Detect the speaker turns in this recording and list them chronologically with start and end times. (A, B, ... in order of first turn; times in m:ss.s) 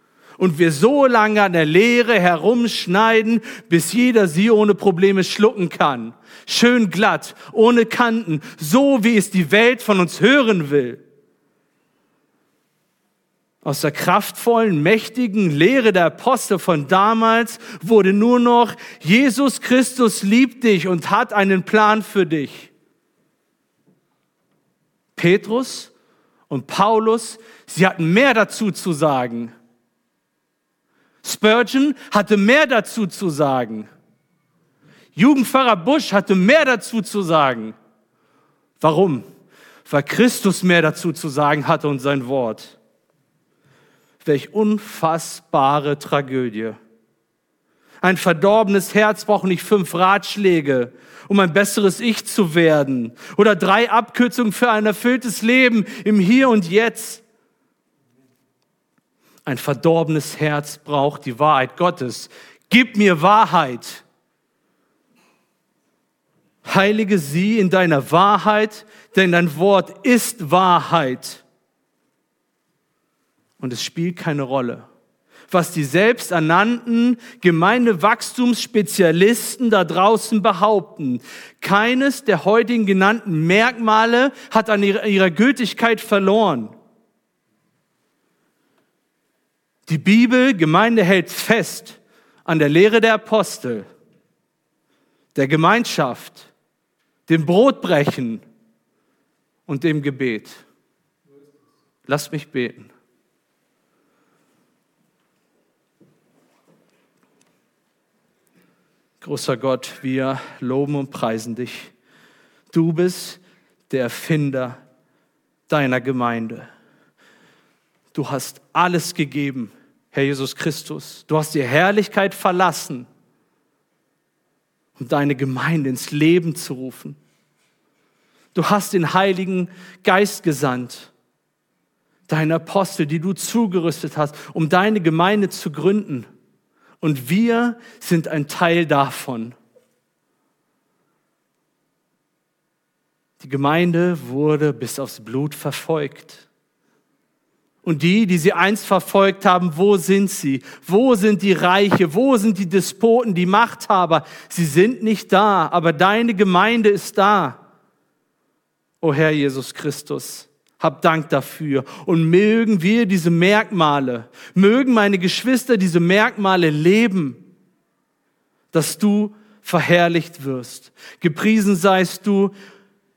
0:00.4-0:11.0 A
0:13.6-0:22.7 A
0:25.2-0:25.9 A
0:26.5-0:29.5 A
0:31.2-0:33.9 A
0:35.2-0:37.8 A
0:38.8-0:39.2 A
0:39.8-0:42.8 A
0:44.2-0:46.8 A
0:48.0-0:57.2 A
0:59.5-1:04.0 A
1:06.6-1:11.4 A
1:13.6-1:14.9 A
1:15.5-1:26.7 A
1:29.9-1:33.9 A
1:35.4-1:36.5 A
1:37.3-1:38.4 A
1:39.7-1:40.6 A
1:42.1-1:42.9 A
1:49.2-1:51.9 A
1:52.7-1:54.8 A
1:55.7-1:56.7 A
1:58.1-2:03.1 A
2:05.0-2:07.2 A
2:08.5-2:11.1 A
2:12.3-2:16.3 A
2:17.0-2:19.6 A
2:23.4-2:26.5 A
2:27.8-2:37.6 A
2:39.0-2:47.4 A
2:48.7-2:52.5 A